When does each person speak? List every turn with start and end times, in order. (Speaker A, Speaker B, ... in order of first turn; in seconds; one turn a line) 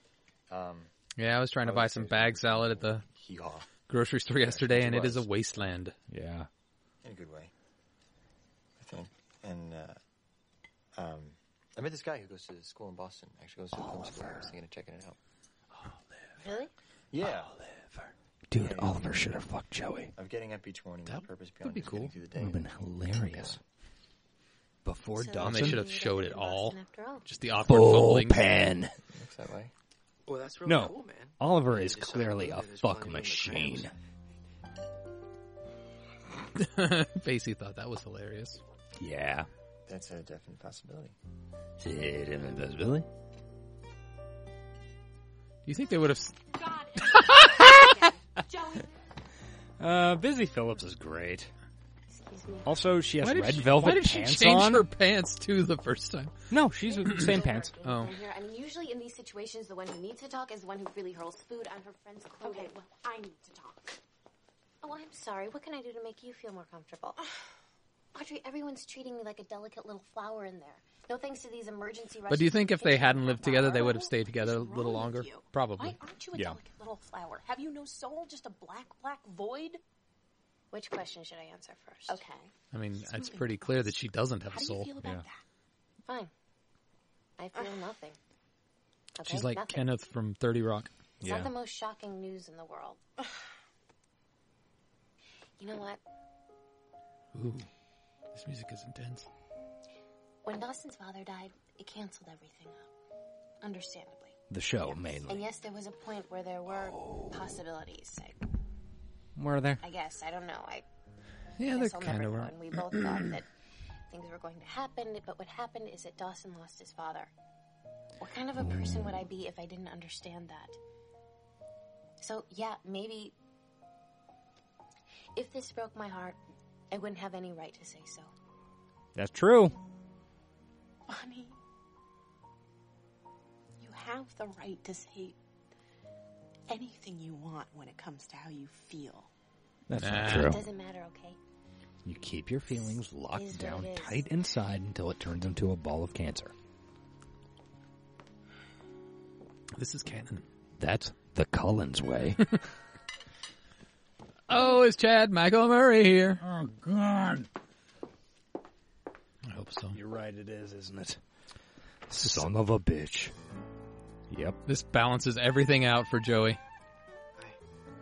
Speaker A: 0.5-0.9
Speaker B: 1.1-3.0
Speaker A: 1.6-3.7
Speaker B: 3.9-5.9
Speaker A: 4.3-5.3
Speaker C: 6.1-6.5
Speaker A: 7.0-7.5
Speaker A: 8.8-10.0
Speaker A: 10.9-15.2
Speaker C: 13.7-14.5
Speaker B: 15.7-16.3
Speaker D: 16.4-16.7
Speaker A: 17.1-17.5
Speaker B: 17.2-18.1
Speaker C: 18.5-20.1
Speaker A: 18.5-19.3
Speaker A: 20.1-22.7
Speaker B: 21.1-22.1
Speaker C: 22.4-23.6
Speaker A: 23.2-23.6
Speaker C: 24.8-25.8
Speaker D: 25.1-27.3
Speaker B: 25.4-28.5
Speaker C: 27.7-28.9
Speaker A: 29.1-29.7
Speaker E: 30.3-33.9
Speaker C: 30.6-33.9
Speaker B: 36.5-38.6
Speaker C: 39.0-39.5
Speaker A: 39.9-41.1
Speaker C: 41.8-43.0
Speaker B: 45.6-46.4
Speaker F: 46.5-48.9
Speaker B: 47.0-48.0
Speaker C: 49.8-51.5
Speaker D: 52.1-52.7
Speaker C: 52.6-54.9
Speaker B: 53.2-56.3
Speaker C: 56.5-57.7
Speaker D: 56.8-62.8
Speaker B: 57.8-58.1
Speaker F: 62.4-64.0
Speaker D: 64.8-67.2
Speaker D: 68.1-73.9
Speaker B: 72.3-76.0
Speaker F: 73.4-79.8
Speaker D: 80.7-82.3
Speaker F: 82.1-83.9
Speaker B: 82.7-84.9
Speaker F: 84.5-85.4
Speaker D: 86.0-86.3
Speaker D: 87.4-88.2
Speaker D: 89.1-90.0
Speaker B: 89.2-90.9
Speaker C: 91.2-91.5
Speaker D: 91.2-93.0
Speaker D: 95.6-96.0
Speaker B: 97.3-97.7
Speaker B: 98.3-99.3
Speaker D: 100.4-102.9
Speaker D: 103.6-108.4
Speaker C: 104.5-105.5
Speaker C: 109.3-109.8
Speaker D: 109.8-110.8
Speaker B: 111.6-113.2
Speaker D: 111.6-113.5
Speaker D: 114.1-117.3
Speaker D: 118.2-120.8
Speaker C: 118.6-119.1
Speaker D: 122.2-123.3
Speaker D: 125.3-126.4
Speaker D: 126.9-128.3
Speaker C: 129.1-129.8
Speaker F: 131.1-131.5
Speaker F: 133.8-135.4
Speaker F: 136.7-139.3
Speaker C: 139.9-140.6
Speaker B: 140.0-140.6
Speaker D: 140.2-141.4
Speaker C: 142.0-146.5
Speaker D: 142.7-144.3
Speaker B: 149.8-150.4
Speaker C: 150.8-152.4
Speaker B: 154.5-156.4
Speaker C: 156.4-157.5
Speaker B: 159.4-160.0
Speaker C: 159.9-161.2
Speaker C: 162.1-163.3
Speaker B: 162.2-162.5
Speaker C: 164.3-164.6
Speaker B: 164.7-166.6